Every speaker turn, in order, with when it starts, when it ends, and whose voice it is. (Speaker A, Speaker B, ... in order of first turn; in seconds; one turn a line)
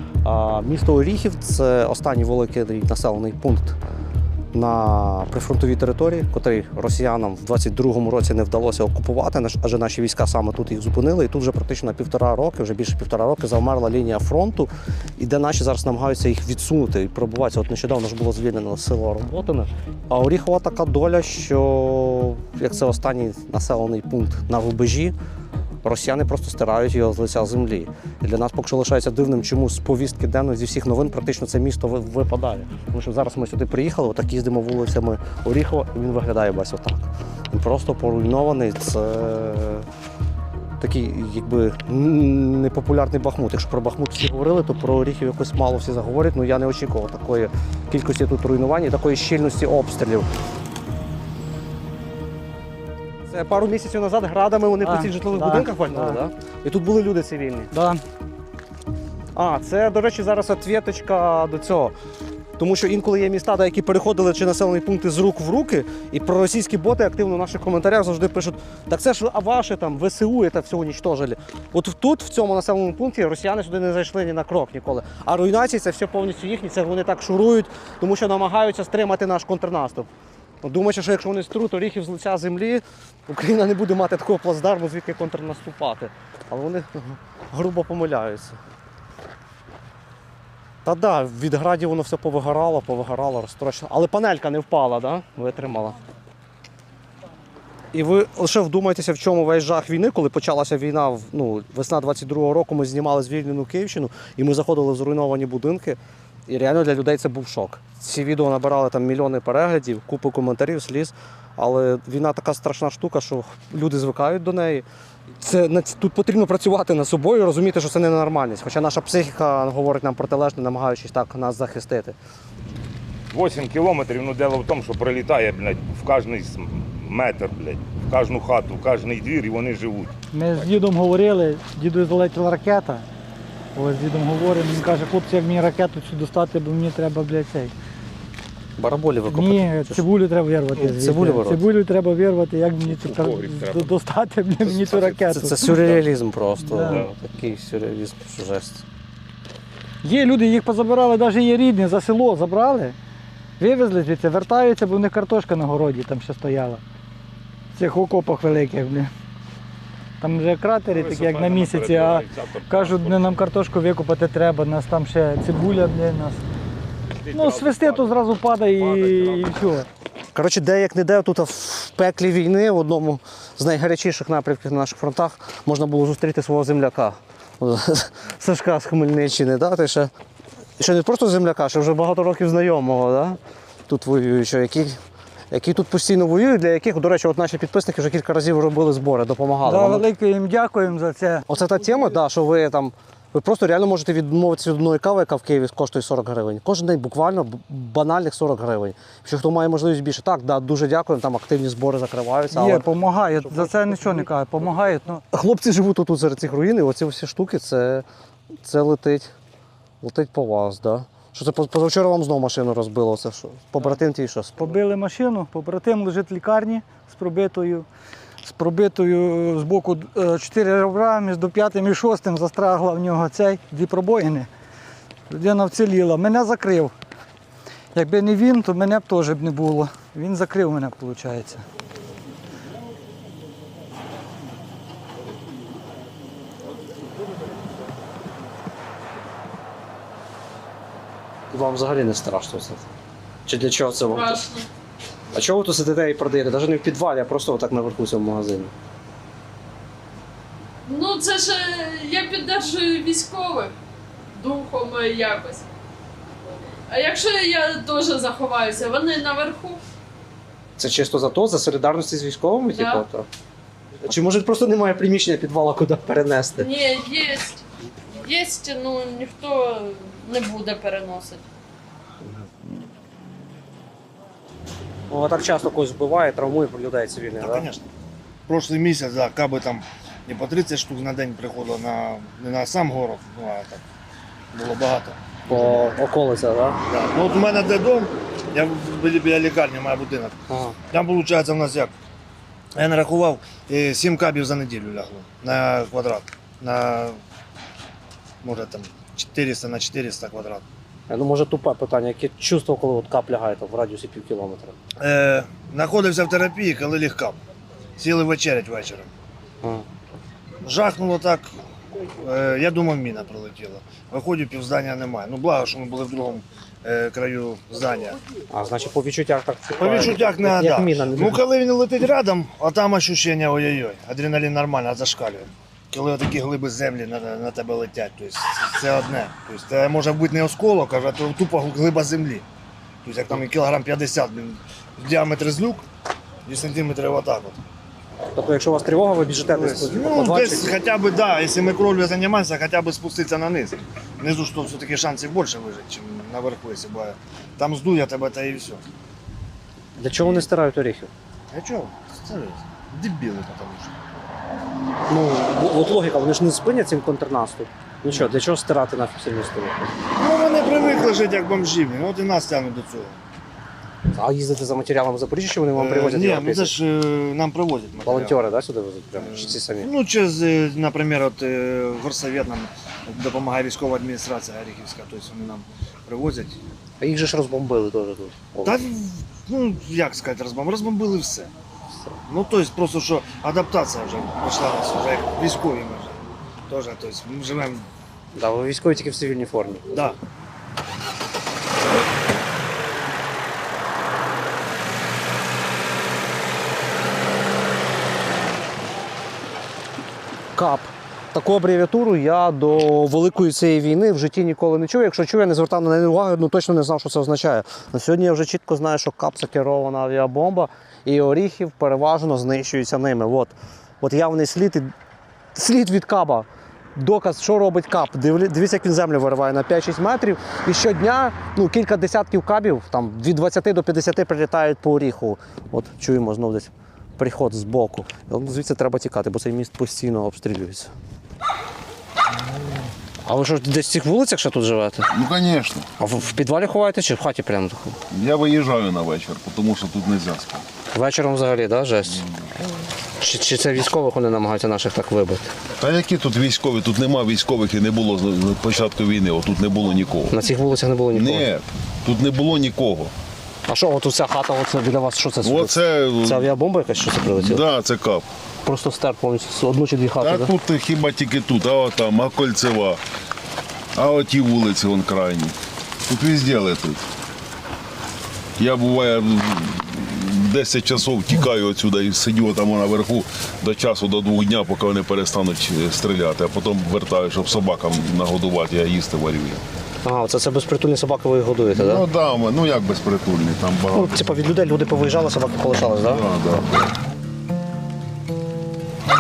Speaker A: 0.2-3.8
Speaker A: 4.5-25.1
Speaker A: 25.8-39.9
Speaker A: 40.8-50.3
Speaker A: 53.3-57.7
Speaker B: 54.8-56.2
Speaker B: 57.7-58.0
Speaker A: 59.4-61.9
Speaker A: 62.6-80.1
Speaker A: 80.6-88.6
Speaker A: 90.8-96.0
Speaker A: 97.9-114.8
Speaker A: 115.4-122.2
Speaker C: 123.3-130.8
Speaker B: 130.3-133.1
Speaker B: 133.8-137.7
Speaker A: 138.8-140.1
Speaker B: 139.3-145.8
Speaker A: 140.8-141.7
Speaker C: 142.8-144.0
Speaker C: 144.6-146.0
Speaker A: 145.3-148.8
Speaker B: 146.6-147.1
Speaker B: 150.0-153.0
Speaker B: 153.6-156.8
Speaker B: 157.8-159.1
Speaker B: 160.2-166.4
Speaker C: 160.8-163.5
Speaker C: 167.1-169.7
Speaker B: 167.3-169.9
Speaker A: 170.3-180.1
Speaker A: 180.8-185.0
Speaker A: 185.5-190.1
Speaker B: 189.6-191.4
Speaker A: 191.5-204.3
Speaker B: 202.5-205.2
Speaker A: 205.3-208.1
Speaker A: 208.6-209.3
Speaker A: 210.0-214.8
Speaker B: 214.6-217.9
Speaker B: 218.4-224.5
Speaker B: 225.3-226.9
Speaker B: 227.9-231.7
Speaker A: 241.5-242.9
Speaker A: 243.5-244.4
Speaker D: 244.1-244.7
Speaker A: 245.3-248.7
Speaker D: 250.9-253.8
Speaker D: 254.3-255.7
Speaker D: 256.9-259.8
Speaker A: 260.8-263.3
Speaker D: 262.7-263.1
Speaker A: 264.0-266.7
Speaker D: 266.6-267.6
Speaker D: 268.2-271.4
Speaker A: 275.1-277.7
Speaker E: 277.4-277.9
Speaker E: 278.5-283.8
Speaker E: 284.5-285.9
Speaker A: 285.5-286.8
Speaker E: 286.9-290.4
Speaker A: 290.5-290.8
Speaker E: 290.9-291.9
Speaker E: 292.8-297.2
Speaker E: 298.4-300.6
Speaker A: 301.1-304.8
Speaker E: 305.0-307.4
Speaker E: 308.0-309.1
Speaker E: 310.6-318.2
Speaker A: 318.5-321.4
Speaker E: 319.8-332.4
Speaker E: 333.0-335.9
Speaker E: 336.5-337.6
Speaker A: 338.3-340.8
Speaker E: 339.5-348.8
Speaker A: 350.0-351.1
Speaker E: 351.5-354.0
Speaker A: 355.1-359.9
Speaker E: 360.2-363.2
Speaker A: 364.1-366.8
Speaker E: 365.7-368.4
Speaker A: 368.0-369.9
Speaker E: 369.2-376.6
Speaker A: 377.0-378.8
Speaker E: 378.6-381.5
Speaker A: 381.9-382.2
Speaker E: 382.3-387.9
Speaker A: 388.4-390.1
Speaker A: 400.6-414.9
Speaker A: 415.6-430.9
Speaker A: 433.2-435.1
Speaker F: 435.1-435.9
Speaker A: 436.0-438.0
Speaker F: 438.1-440.7
Speaker A: 440.9-442.3
Speaker A: 443.2-445.4
Speaker F: 445.8-450.4
Speaker A: 450.3-451.5
Speaker F: 451.1-453.1
Speaker A: 453.7-457.6
Speaker F: 455.4-456.5
Speaker F: 457.2-458.3
Speaker A: 458.6-460.5
Speaker F: 460.2-463.0
Speaker F: 463.9-465.6
Speaker F: 466.1-467.1
Speaker F: 468.6-479.6
Speaker A: 480.0-482.1
Speaker F: 481.7-484.2
Speaker A: 483.9-486.2
Speaker F: 486.1-486.9